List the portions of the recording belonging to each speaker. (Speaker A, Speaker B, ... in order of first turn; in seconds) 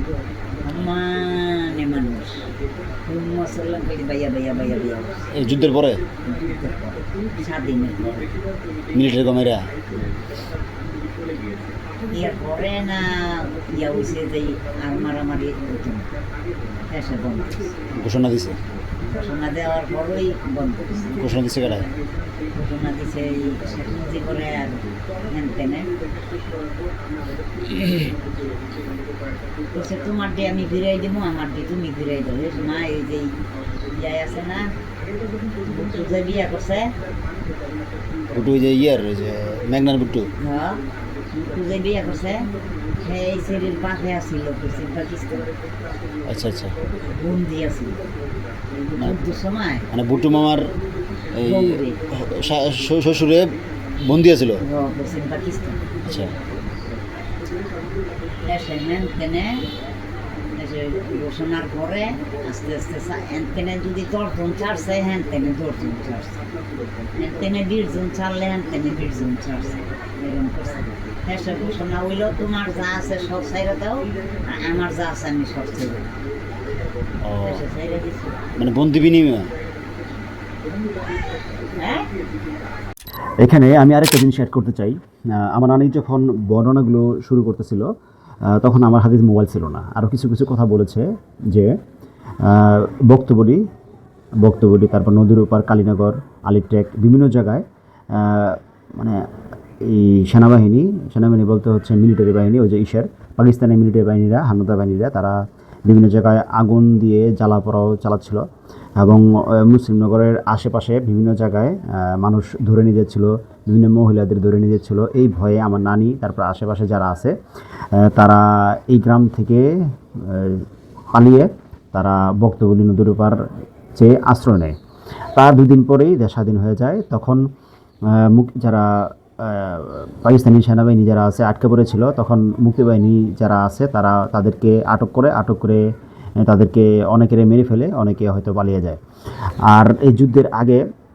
Speaker A: 0.6-2.5, 3.1-5.3, 6.2-8.3, 12.1-16.1, 16.9-17.8, 19.1-21.3, 22.5-25.9, 27.7-28.1, 29.7-34.7, 35.6-37.0, 40.4-42.5, 43.0-45.5, 47.1-48.0, 48.9-49.9, 51.4-52.0, 54.6-55.8, 58.5-59.7, 60.6-66.4, 67.2-76.1, 77.4-78.4, 81.8-82.1
Speaker B: 5.3-6.0, 8.9-9.7, 17.9-18.6, 21.2-21.9, 38.3-40.3, 46.3-46.8, 49.9-50.7, 51.3-54.6, 56.1-56.3, 77.2-77.6, 78.6-79.5
Speaker C: 83.4-87.9, 88.5-91.8, 92.4-93.6, 94.4-99.2, 99.8-105.4, 105.9-108.5, 109.0-117.3, 117.9-123.4, 124.0-124.8, 125.4-127.5, 128.1-135.8, 136.4-139.0, 139.6-140.8